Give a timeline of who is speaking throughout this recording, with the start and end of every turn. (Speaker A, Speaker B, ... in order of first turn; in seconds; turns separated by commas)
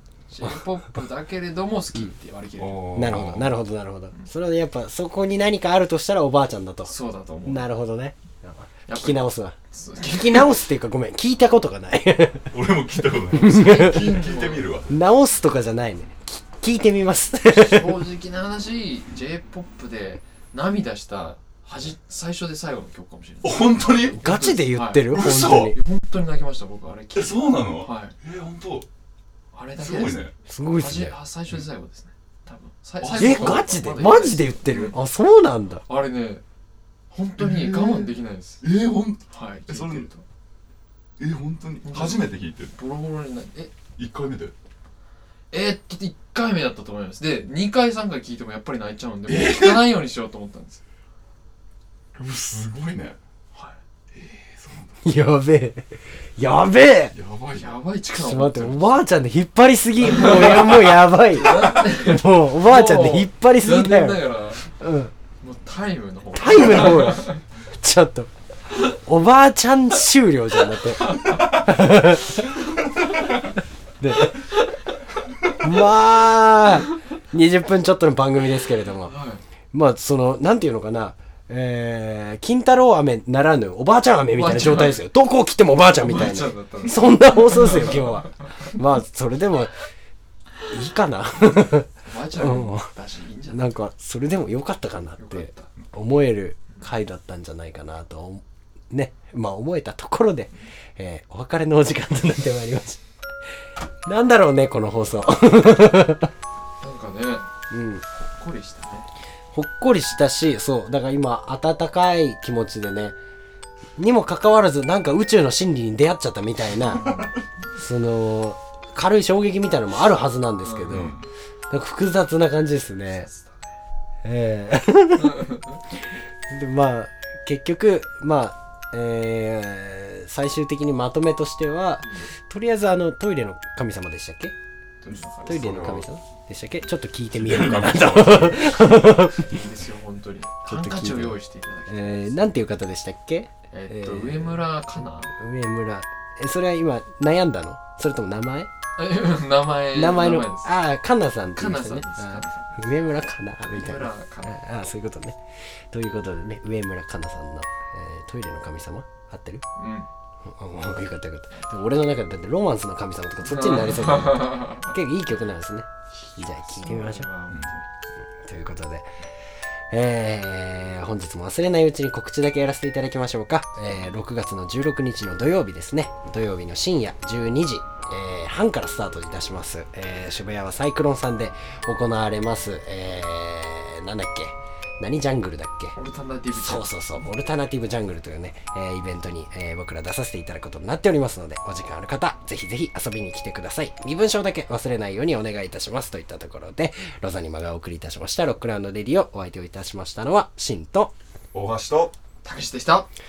Speaker A: 0.3-2.8, Speaker B: 2.6-3.5, Speaker C: 2.9-6.9, Speaker A: 6.8-7.7, Speaker C: 7.5-12.6, Speaker A: 8.9-10.6, Speaker B: 12.5-15.0, Speaker C: 13.3-14.2, Speaker A: 13.5-14.7, Speaker C: 14.9-18.0, Speaker A: 17.5-25.1, Speaker B: 23.4-24.2, Speaker C: 24.2-25.8, Speaker B: 25.1-25.8, Speaker A: 25.7-28.1, Speaker B: 27.1-28.9, Speaker A: 29.5-35.0, Speaker B: 29.8-30.3, Speaker C: 30.5-31.1, Speaker B: 33.0-33.7, Speaker C: 33.2-35.8, Speaker A: 35.8-36.4, Speaker A: 37.1-38.6, Speaker B: 37.4-38.1, Speaker B: 38.6-40.1, Speaker A: 39.3-40.2, Speaker B: 41.2-42.7, Speaker A: 41.8-43.7, Speaker B: 44.0-44.5, Speaker A: 45.5-50.8, Speaker B: 49.3-49.9, Speaker B: 52.1-53.2, Speaker A: 53.5-53.8, Speaker B: 54.1-55.1, Speaker C: 55.0-57.1, Speaker B: 57.1-57.7, Speaker A: 57.5-59.0, Speaker C: 58.1-65.1, Speaker A: 60.0-64.7, Speaker A: 65.4-67.4, Speaker C: 66.3-72.5, Speaker A: 70.9-71.5, Speaker C: 74.0-74.5, Speaker C: 75.6-79.1, Speaker A: 79.0-79.4, Speaker C: 79.7-89.7, Speaker A: 84.3-85.0, Speaker A: 86.0-88.3, Speaker C: 90.7-92.9, Speaker A: 92.0-93.8, Speaker C: 93.5-103.0, Speaker A: 95.2-95.7, Speaker C: 104.0-106.3, Speaker A: 106.8-107.5, Speaker C: 107.7-108.0, Speaker A: 108.1-109.1, Speaker C: 109.5-113.2, Speaker C: 114.0-117.1, Speaker A: 117.0-117.3, Speaker C: 117.7-121.2, Speaker A: 120.6-121.1, Speaker B: 120.9-121.3, Speaker C: 121.7-123.3, Speaker A: 123.1-123.8, Speaker C: 124.2-134.6, Speaker A: 125.2-125.8, Speaker A: 132.0-132.3, Speaker A: 135.0-135.8, Speaker B: 135.1-136.1, Speaker C: 135.4-139.6, Speaker B: 137.3-139.0, Speaker A: 138.9-142.4, Speaker C: 140.7-144.6, Speaker A: 143.7-145.3, Speaker C: 145.3-148.7, Speaker A: 149.0-150.7, Speaker C: 149.9-159.6, Speaker A: 151.5-152.9, Speaker A: 153.7-154.6, Speaker A: 159.8-160.1, Speaker C: 160.4-167.3, Speaker A: 163.4-164.9, Speaker A: 166.2-167.8, Speaker C: 168.4-169.1, Speaker C: 169.9-185.9, Speaker A: 185.9-186.9, Speaker C: 186.5-201.1, Speaker B: 201.5-202.1, Speaker A: 202.4-203.1